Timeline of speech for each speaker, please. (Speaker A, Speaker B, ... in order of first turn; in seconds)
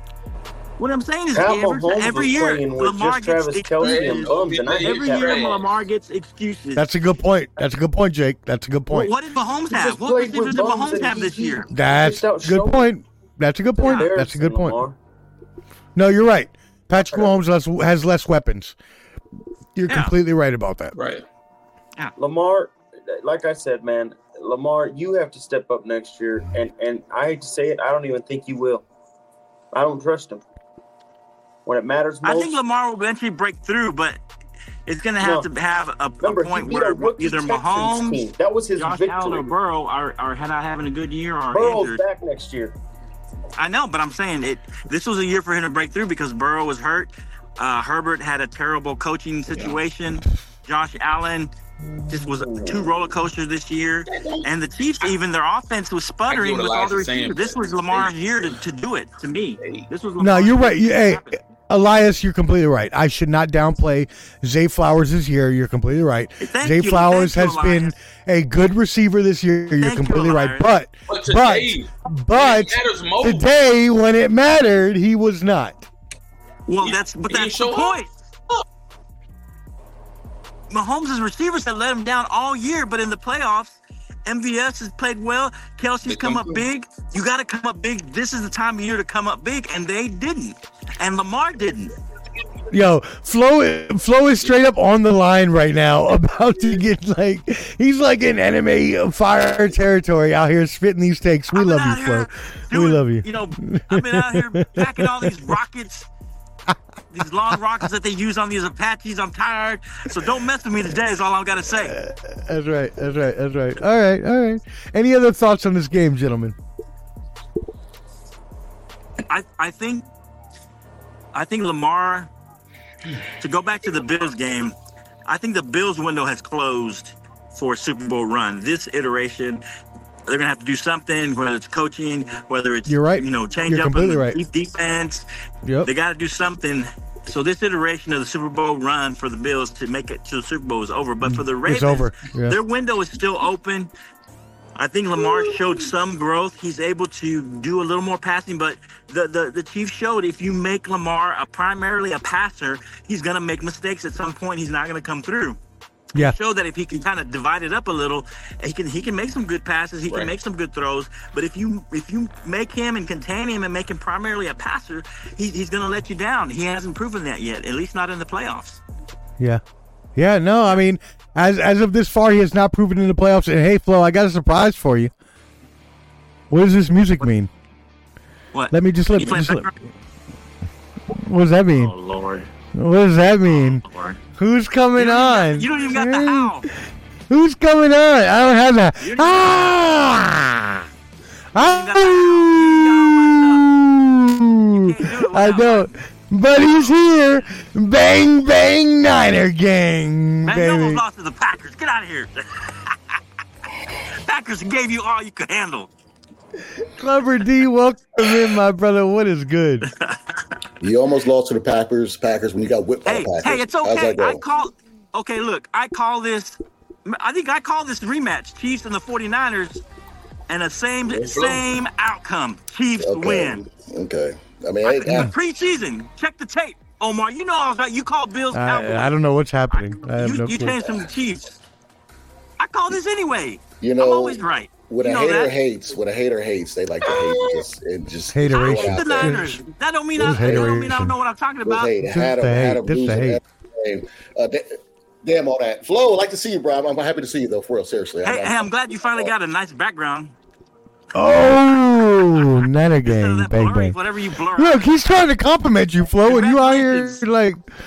Speaker A: 0.8-6.9, 8.9-11.7, 13.8-14.1, 32.2-34.2, 34.9-38.2, 38.8-42.0, 43.6-51.5, 52.1-61.4, 66.4-67.9, 69.8-70.7, 76.7-78.1, 80.7-91.9, 101.5-106.1, 107.1-112.0, 119.3-120.1, 121.3-122.3, 123.4-129.6, 130.3-135.3, 135.8-143.9, 144.8-155.6, 156.1-168.8, 178.5-179.7, 181.7-182.5, 183.4-184.2, 184.9-186.7, 189.0-189.9, 191.5-193.7, 194.7-195.9, 200.4-202.9, 204.2-205.9, 209.9-210.2, 213.0-219.8, 220.5-223.6, 224.8-229.1, 229.7-231.5, 232.6-235.5, 238.4-241.9, 248.2-250.3, 253.0-254.9, 256.2-257.2
Speaker B: 1.3-5.5, 9.7-12.9, 13.8-15.0, 16.9-17.3, 22.2-28.8, 29.7-30.4, 31.6-32.6, 35.2-35.5, 36.2-39.5, 41.5-42.7, 52.4-52.8
Speaker C: 3.8-5.6, 20.9-21.2, 49.5-49.8, 54.1-54.4, 56.3-58.1, 59.6-59.9, 71.1-73.5, 76.8-78.6, 86.0-86.6, 221.3-221.6
Speaker D: 6.8-9.1, 11.7-14.8, 15.9-18.7, 19.7-20.9, 60.2-75.9, 92.7-105.5, 111.7-116.5, 132.9-134.4, 135.6-135.9, 141.2-142.6, 170.2-175.1, 176.5-177.5, 178.7-179.7, 181.1-181.9, 182.7-183.8, 184.4-186.7, 187.3-190.8, 191.5-201.0, 206.8-209.9, 228.5-230.8, 238.3-239.5, 240.2-241.1, 242.0-243.4, 251.1-254.0, 254.5-257.6
Speaker E: 210.8-214.4, 223.0-225.3, 233.8-239.5, 240.2-240.8, 241.6-249.3